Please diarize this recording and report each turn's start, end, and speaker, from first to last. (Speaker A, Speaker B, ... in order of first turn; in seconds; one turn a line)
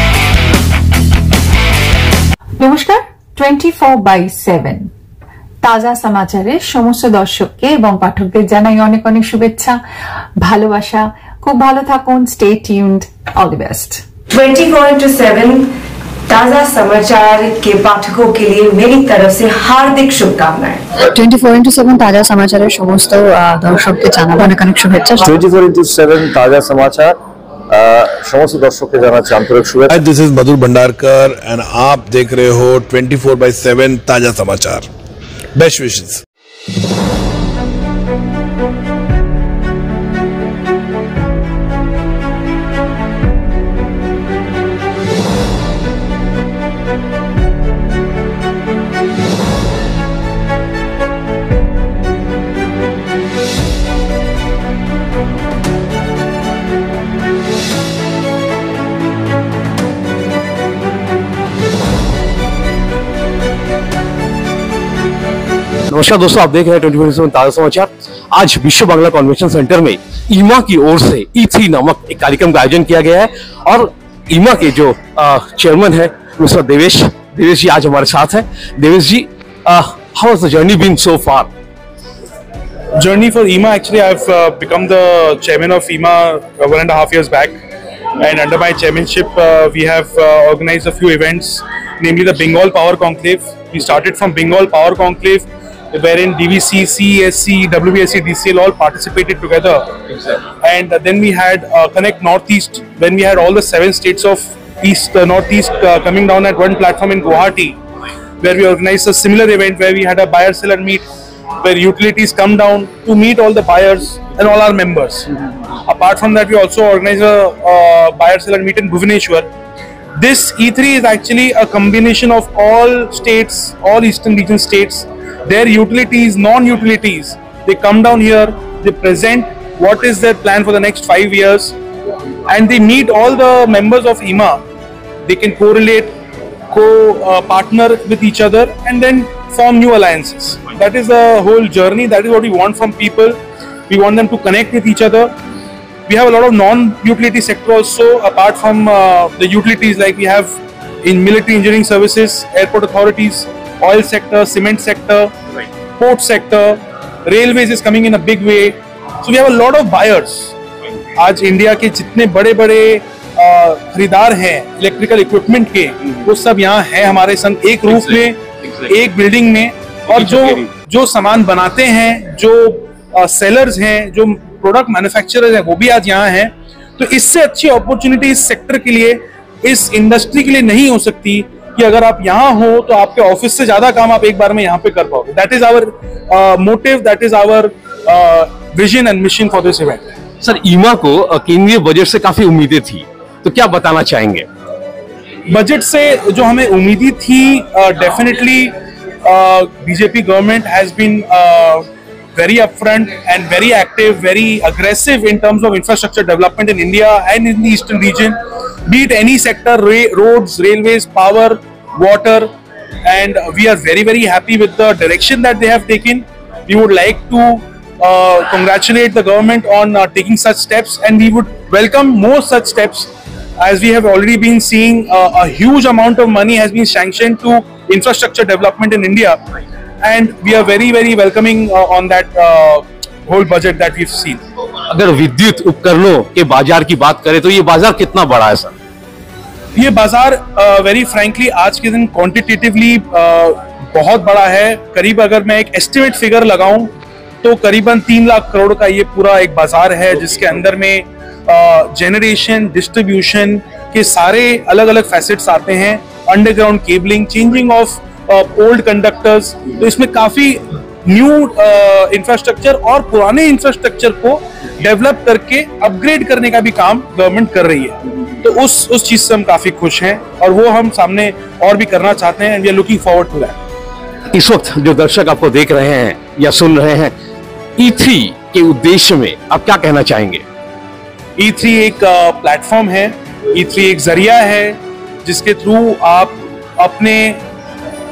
Speaker A: 2.6-4.9
Speaker A: 5.6-9.8
Speaker A: 10.4-14.0
Speaker B: 14.3-15.7
Speaker B: 16.3-24.2
Speaker C: 21.2-25.2
Speaker B: 24.7-25.2
Speaker D: 25.2-27.2
Speaker D: 27.7-30.0
Speaker E: 29.9-34.9
Speaker E: 35.5-36.2
Speaker F: 65.9-81.5
Speaker G: 83.0-87.6
Speaker G: 88.2-100.0
Speaker G: 100.6-107.8
Speaker G: 108.4-111.0
Speaker G: 111.6-115.3
Speaker G: 115.8-119.5
Speaker G: 120.2-131.8
Speaker G: 132.4-134.6
Speaker G: 135.2-136.1
Speaker G: 136.7-145.3
Speaker G: 146.1-155.3
Speaker G: 156.0-160.5
Speaker G: 161.2-190.1
Speaker F: 190.4-194.4
Speaker G: 195.5-212.5
Speaker G: 213.0-229.4
Speaker G: 230.0-234.4
Speaker F: 234.9-238.7
Speaker G: 239.7-273.6
Speaker F: 274.3-277.1
Speaker F: 277.8-280.4
Speaker G: 281.4-287.4